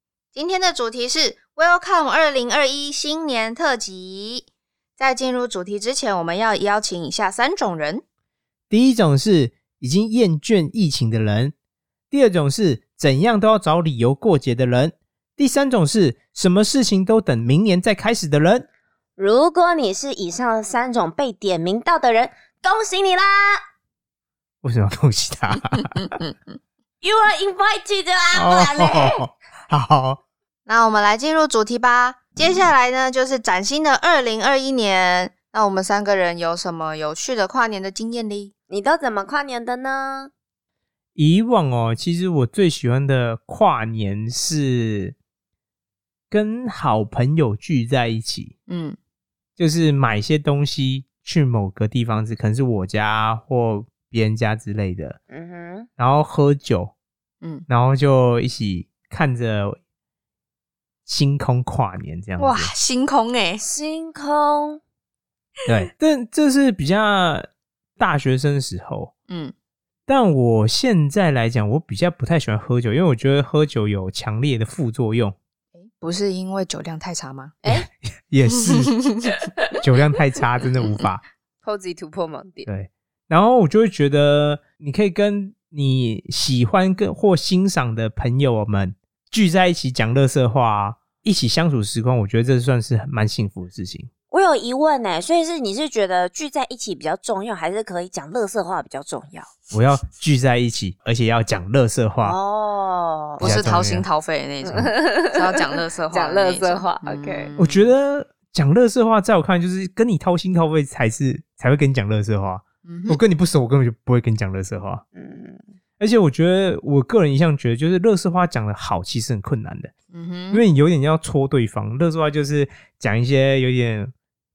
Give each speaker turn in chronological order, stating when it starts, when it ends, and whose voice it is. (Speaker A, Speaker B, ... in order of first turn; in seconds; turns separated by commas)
Speaker A: 0.3-4.5, Speaker A: 5.0-8.0, Speaker B: 8.7-11.5, Speaker B: 12.1-18.7, Speaker C: 19.2-23.6, Speaker B: 24.6-26.2, Speaker A: 25.9-26.6, Speaker C: 27.0-29.2, Speaker B: 28.3-30.2, Speaker A: 30.7-38.5, Speaker C: 38.7-40.3, Speaker B: 41.1-45.1, Speaker B: 46.3-48.5, Speaker A: 48.7-49.0, Speaker B: 49.6-55.2, Speaker C: 55.3-55.9, Speaker B: 56.0-56.9, Speaker B: 57.7-59.8, Speaker B: 61.0-62.7, Speaker A: 62.4-63.6, Speaker C: 63.6-64.8, Speaker B: 65.7-69.1, Speaker A: 69.3-69.5, Speaker B: 70.1-75.3, Speaker A: 75.8-77.5, Speaker C: 77.6-77.9, Speaker B: 77.7-79.0, Speaker A: 78.6-79.3, Speaker B: 79.8-81.2, Speaker C: 81.6-82.7, Speaker B: 82.7-94.1, Speaker C: 94.3-99.5, Speaker B: 99.7-102.3, Speaker C: 102.2-103.7, Speaker A: 103.4-107.9, Speaker B: 103.4-104.0, Speaker C: 104.6-107.5, Speaker B: 107.6-115.0, Speaker A: 112.8-113.2, Speaker C: 115.1-115.6, Speaker B: 116.0-119.9, Speaker A: 120.1-120.6, Speaker B: 120.5-124.1